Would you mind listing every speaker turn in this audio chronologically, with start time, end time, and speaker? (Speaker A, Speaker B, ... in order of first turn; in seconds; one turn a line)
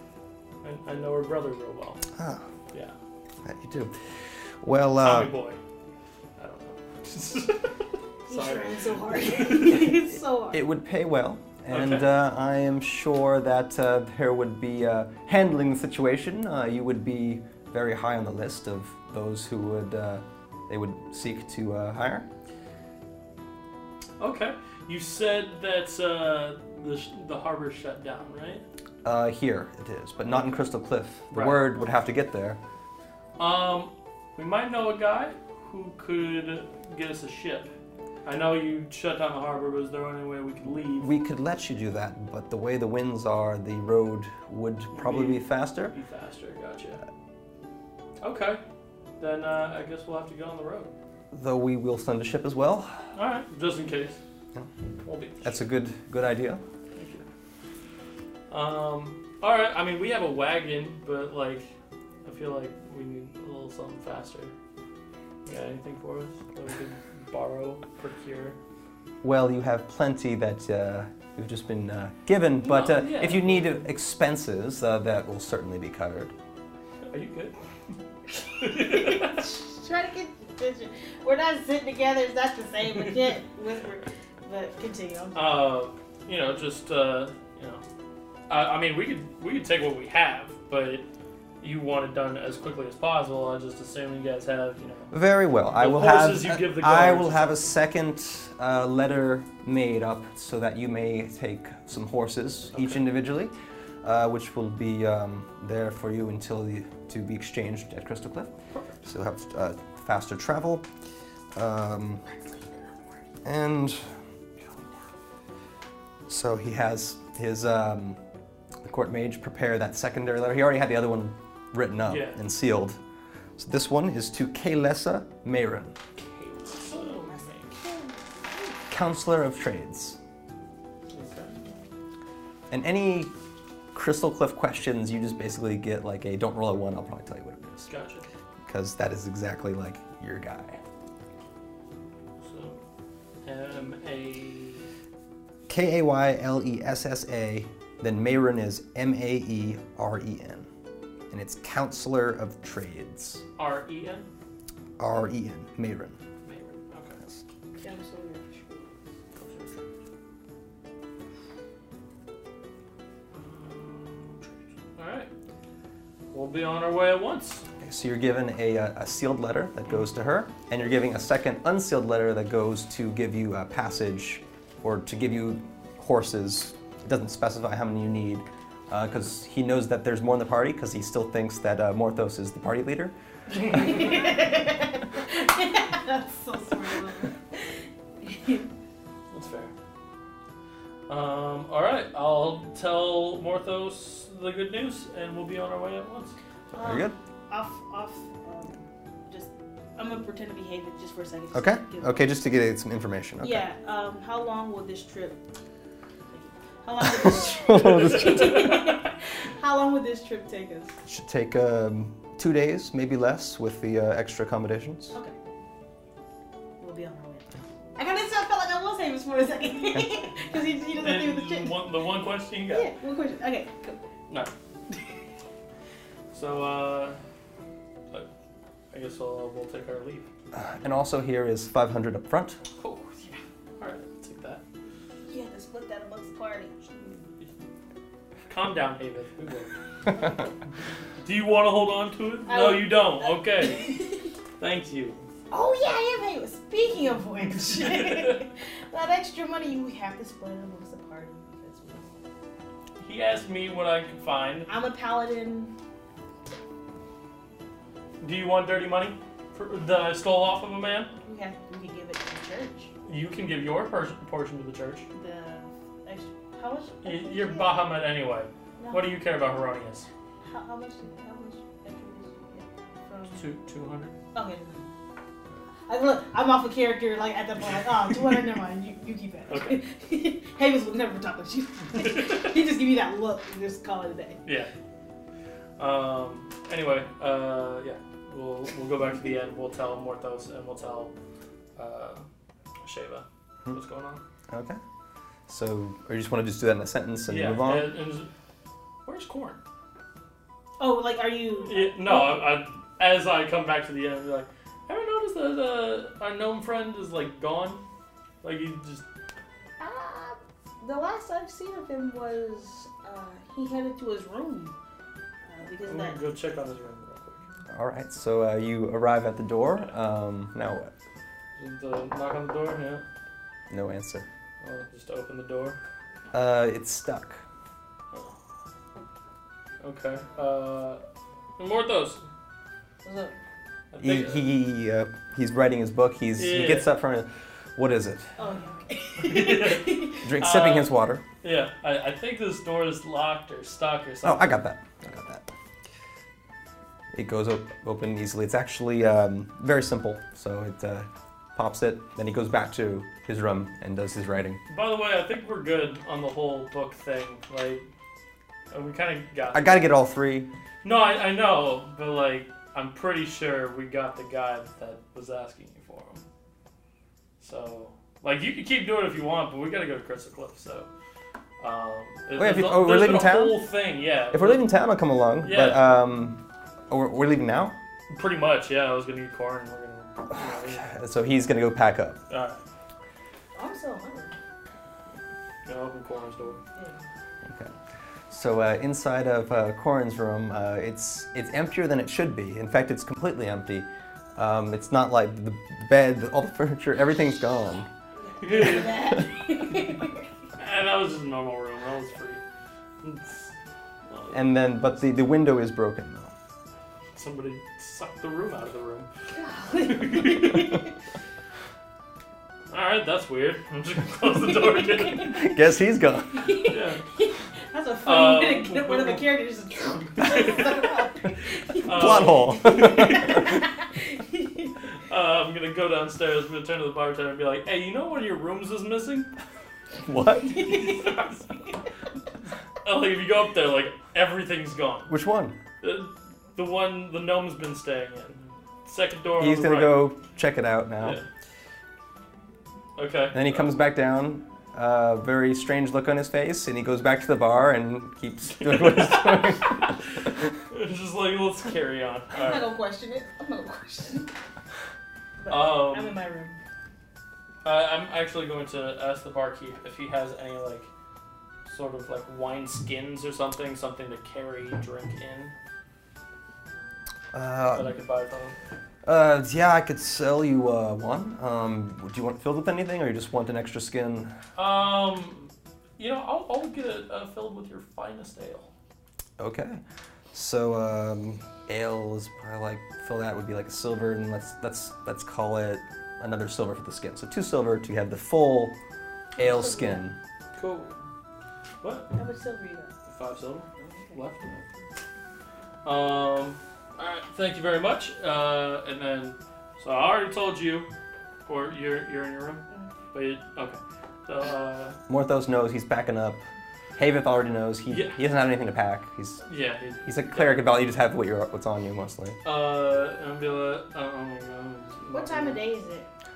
Speaker A: 0.6-2.0
Speaker B: 2.1-2.5
Speaker B: 3.4-4.1
Speaker B: 4.6-5.3
Speaker A: 5.0-5.6
Speaker A: 6.4-9.9
Speaker C: 8.3-10.6
Speaker B: 10.5-22.3
Speaker A: 11.7-12.1
Speaker A: 24.2-28.6
Speaker B: 29.0-32.6
Speaker A: 30.3-30.6
Speaker A: 31.3-31.7
Speaker A: 33.4-37.7
Speaker A: 38.2-41.1
Speaker B: 41.0-45.9
Speaker A: 44.9-47.0
Speaker A: 48.2-48.6
Speaker A: 49.2-50.9
Speaker B: 51.3-53.0
Speaker A: 53.1-54.2
Speaker A: 55.0-55.6
Speaker B: 55.4-56.6
Speaker A: 56.9-57.2
Speaker A: 58.5-61.7
Speaker A: 62.2-64.5
Speaker A: 65.5-68.6
Speaker B: 69.2-76.3
Speaker A: 72.6-73.8
Speaker A: 77.1-77.5
Speaker A: 78.6-79.4
Speaker C: 78.6-85.4
Speaker A: 85.3-87.8
Speaker A: 88.5-91.0
Speaker A: 91.6-95.1
Speaker B: 95.1-108.5
Speaker A: 95.7-97.7
Speaker A: 102.7-103.0
Speaker B: 109.0-110.8
Speaker B: 111.5-112.2
Speaker B: 113.4-114.0
Speaker A: 114.6-114.8
Speaker B: 116.3-118.2
Speaker B: 118.8-123.0
Speaker A: 122.1-122.4
Speaker B: 123.6-125.9
Speaker A: 126.2-127.7
Speaker C: 126.8-128.8
Speaker B: 128.9-130.2
Speaker A: 131.1-131.6
Speaker B: 132.7-133.3
Speaker B: 133.9-137.9
Speaker A: 137.8-138.3
Speaker B: 138.7-140.8
Speaker A: 142.4-142.8
Speaker A: 143.4-144.9
Speaker B: 145.7-150.7
Speaker B: 151.3-153.4
Speaker A: 153.6-154.3
Speaker B: 155.0-156.2
Speaker A: 156.4-157.2
Speaker C: 157.8-159.0
Speaker A: 159.3-159.8
Speaker A: 163.3-165.3
Speaker A: 166.3-167.6
Speaker B: 167.8-183.1
Speaker A: 183.5-184.3
Speaker C: 183.7-187.6
Speaker C: 188.2-188.7
Speaker A: 189.3-189.7
Speaker A: 191.1-196.3
Speaker C: 196.7-202.3
Speaker B: 196.8-197.1
Speaker B: 201.5-203.6
Speaker C: 203.4-205.4
Speaker C: 206.3-210.9
Speaker B: 207.2-208.4
Speaker A: 208.3-208.6
Speaker B: 211.1-215.1
Speaker C: 216.8-221.9
Speaker A: 220.9-222.9
Speaker C: 222.7-224.0
Speaker A: 226.3-227.2
Speaker A: 228.9-230.3
Speaker B: 230.5-232.6
Speaker A: 232.8-234.6
Speaker C: 235.2-237.2
Speaker A: 238.5-239.7
Speaker A: 241.2-243.9
Speaker C: 242.5-244.3
Speaker A: 244.6-245.2
Speaker C: 245.5-252.2
Speaker A: 247.5-248.4
Speaker A: 253.0-254.7
Speaker C: 254.7-255.7
Speaker A: 258.2-261.1
Speaker C: 261.2-262.9
Speaker A: 263.1-265.1
Speaker C: 265.1-267.8
Speaker A: 267.0-270.1
Speaker C: 268.8-269.1
Speaker C: 270.4-273.4
Speaker A: 273.3-274.1
Speaker C: 274.3-274.9
Speaker C: 275.9-284.4
Speaker A: 279.5-279.8
Speaker A: 281.9-282.5
Speaker A: 284.4-284.7
Speaker A: 285.8-291.1
Speaker A: 291.8-292.2
Speaker A: 292.8-294.2
Speaker B: 294.5-294.8
Speaker B: 295.5-297.9
Speaker A: 297.3-298.3
Speaker A: 299.1-299.6
Speaker C: 300.8-302.4
Speaker A: 301.6-307.8
Speaker A: 308.4-309.0
Speaker C: 309.8-314.7
Speaker C: 315.5-316.2
Speaker A: 315.8-317.4
Speaker B: 317.7-320.9
Speaker A: 321.6-323.0
Speaker B: 323.7-324.3
Speaker A: 324.6-325.8
Speaker B: 326.3-327.4
Speaker A: 329.8-331.0
Speaker A: 331.6-332.2
Speaker C: 333.0-333.3
Speaker A: 333.9-334.5
Speaker B: 334.0-338.2
Speaker A: 336.4-336.9
Speaker C: 338.4-340.2
Speaker A: 339.2-344.6
Speaker B: 340.2-341.2
Speaker B: 344.2-345.5
Speaker B: 347.1-354.6
Speaker A: 354.7-357.8
Speaker A: 358.7-359.9
Speaker B: 359.5-360.5
Speaker A: 360.8-366.2
Speaker A: 367.4-370.9
Speaker A: 371.6-374.6
Speaker B: 372.4-373.6
Speaker B: 374.3-377.7
Speaker A: 375.4-375.9
Speaker A: 378.1-380.9
Speaker B: 380.3-382.2
Speaker A: 382.3-382.6
Speaker C: 383.5-384.3
Speaker A: 385.6-386.6
Speaker C: 386.7-387.1
Speaker B: 387.4-387.7
Speaker B: 388.3-397.9
Speaker C: 398.2-400.2
Speaker A: 398.4-399.2
Speaker A: 400.6-402.4
Speaker A: 403.0-403.5
Speaker A: 404.1-404.5
Speaker B: 404.3-406.3
Speaker A: 407.1-409.1
Speaker C: 409.3-410.9
Speaker A: 409.9-410.7
Speaker A: 412.7-415.4
Speaker C: 414.8-415.3
Speaker B: 415.3-416.5
Speaker C: 416.3-424.8
Speaker A: 416.7-417.0
Speaker A: 418.0-419.3
Speaker A: 420.0-420.9
Speaker A: 421.8-423.5
Speaker B: 421.9-423.6
Speaker A: 425.1-429.3
Speaker B: 430.0-430.7
Speaker C: 430.4-431.2
Speaker A: 430.6-431.4
Speaker A: 432.8-435.1
Speaker B: 435.1-435.6
Speaker A: 435.8-440.1
Speaker B: 439.4-441.2
Speaker A: 441.0-441.2
Speaker A: 443.0-443.7
Speaker B: 443.3-449.9
Speaker A: 448.5-450.1
Speaker A: 450.7-452.7
Speaker C: 452.3-454.3
Speaker C: 455.4-456.6
Speaker A: 455.5-456.2
Speaker A: 457.6-460.9
Speaker A: 461.6-465.5
Speaker B: 467.3-467.9
Speaker A: 467.7-468.6
Speaker B: 469.0-474.3
Speaker A: 474.6-478.7
Speaker B: 479.4-479.8
Speaker B: 480.3-488.7
Speaker B: 489.4-490.2
Speaker C: 489.4-490.0
Speaker A: 490.5-490.9
Speaker A: 491.8-492.1
Speaker C: 492.1-492.9
Speaker A: 493.1-494.8
Speaker C: 493.8-494.1
Speaker A: 495.8-500.9
Speaker A: 501.4-505.0
Speaker B: 505.1-506.4
Speaker B: 507.0-509.4
Speaker A: 507.9-508.2
Speaker A: 509.4-510.7
Speaker B: 510.1-512.4
Speaker A: 512.4-515.6
Speaker C: 515.1-516.1